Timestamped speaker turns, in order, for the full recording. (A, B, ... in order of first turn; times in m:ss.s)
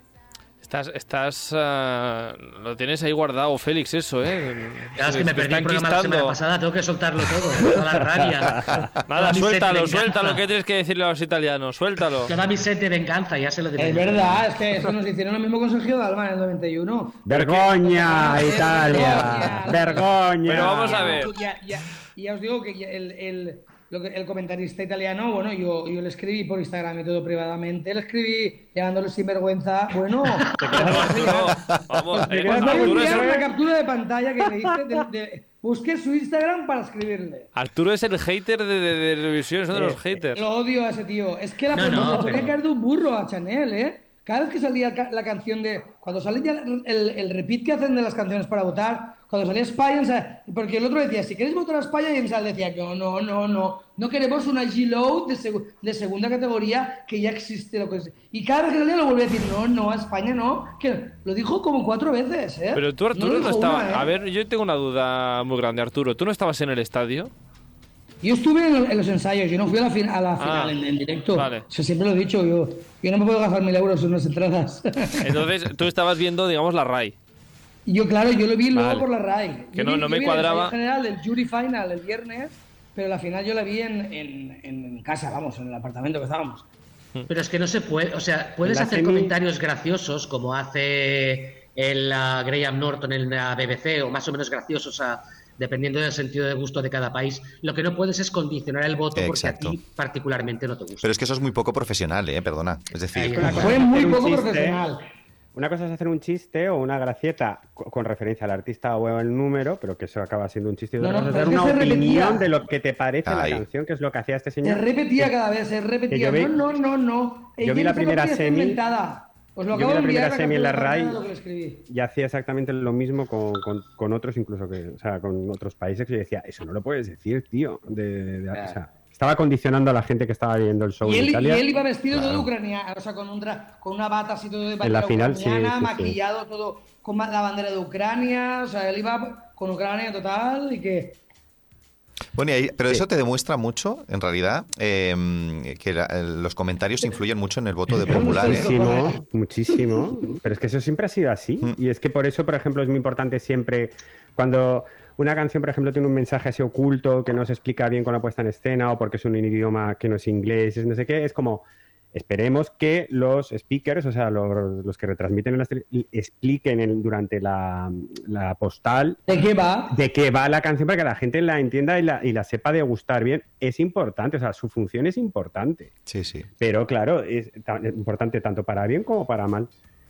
0:00.6-0:06.4 A
0:04.9-0:10.4 B
0:08.5-0:08.8 C
0:09.0-0:12.3 A
0:12.2-0:14.4 B
0:13.8-0:31.5 D
0:17.2-0:21.2 C
0:20.4-0:21.3 A
0:30.4-0:30.9 B
0:30.7-0:33.4 A
0:30.7-0:31.5 C
0:32.1-0:33.5 C
0:32.4-0:37.5 D
0:37.5-0:40.4 A
0:39.7-0:40.2 C
0:40.3-1:04.1 D
0:41.7-0:42.5 B
1:02.7-1:07.3 A
1:08.2-1:15.3 D
1:10.4-1:10.8 A
1:11.3-1:11.7 A
1:15.2-1:17.2 A
1:17.8-1:26.6 D
1:18.7-1:19.1 A
1:19.7-1:20.8 A
1:27.3-1:41.1 B
1:28.6-1:29.4 C
1:39.1-1:39.8 E
1:41.0-1:43.8 E
1:43.1-1:43.8 B
1:43.3-1:44.8 C
1:43.6-1:45.0 D
1:45.5-1:55.3 C
1:51.0-1:52.5 D
1:53.2-1:53.6 E
1:54.6-2:01.8 D
1:56.1-1:56.6 C
1:57.6-1:58.8 C
1:59.7-2:01.2 C
2:01.9-2:11.6 C
2:08.5-2:08.8 B
2:11.0-2:21.2 D
2:12.1-2:12.4 E
2:14.8-2:16.2 C
2:22.4-2:28.8 E
2:27.9-2:29.2 D
2:28.0-2:49.2 C
2:49.3-2:50.0 D
2:49.9-2:55.9 C
2:56.1-2:56.5 E
2:56.6-2:59.7 C